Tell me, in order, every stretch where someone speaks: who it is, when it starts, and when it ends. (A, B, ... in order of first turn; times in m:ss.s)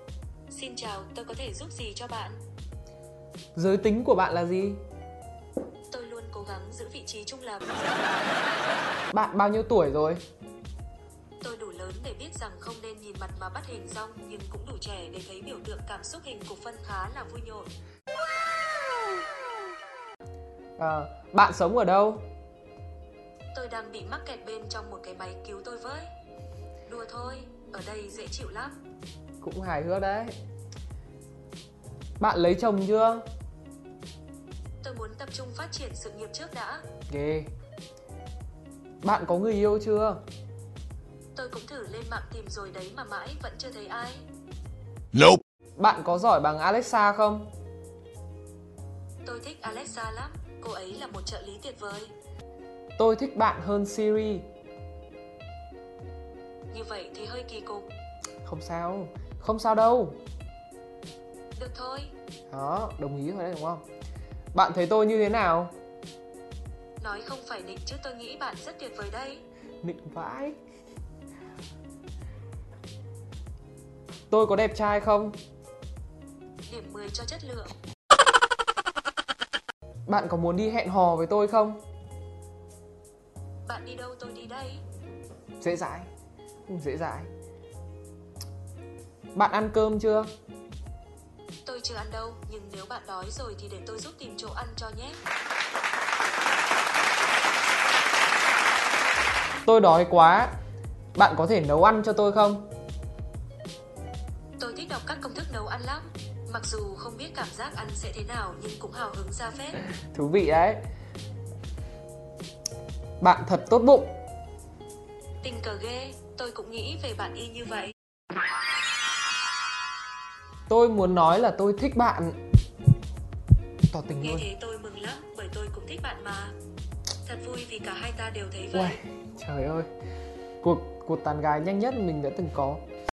0:00.5-0:02.4 A
0:03.5-0:04.8 B
0:05.9-0:08.4 A
0:09.1-0:10.2 B
0:11.4-0:17.7 A
0:20.8-0:22.3 B
0:23.5-0:26.1 A
0:26.8-0:28.8 A
0:29.4-0:30.3 B
0:32.2-0:33.2 B
0:34.8-0:36.8 A
0:37.1-0:37.5 B
0:39.0-0:40.2 B
0:41.3-0:44.2 A
0:45.8-0:47.5 B
0:49.2-0:52.1 A
0:53.0-0:54.5 B
0:56.7-0:57.9 A
0:58.4-1:00.2 B
1:01.5-1:02.1 A
1:02.5-1:03.8 B
1:04.5-1:05.7 B
1:07.0-1:09.4 A
1:09.8-1:10.6 B
1:14.3-1:15.4 B
1:16.7-1:17.7 A
1:20.1-1:21.8 B
1:23.7-1:24.8 A
1:25.6-1:26.1 B
1:26.7-1:27.3 B
1:29.3-1:30.3 B
1:31.6-1:35.2 A
1:39.6-1:40.5 B
1:41.2-1:42.7 B
1:44.6-1:49.8 A
1:50.0-1:50.8 B
1:53.2-1:54.2 B
1:55.4-1:57.9 A
2:00.7-2:02.4 B
2:03.9-2:04.4 B
2:04.2-2:06.5 A
2:07.2-2:09.0 A
2:08.7-2:09.9 B
2:10.6-2:12.8 B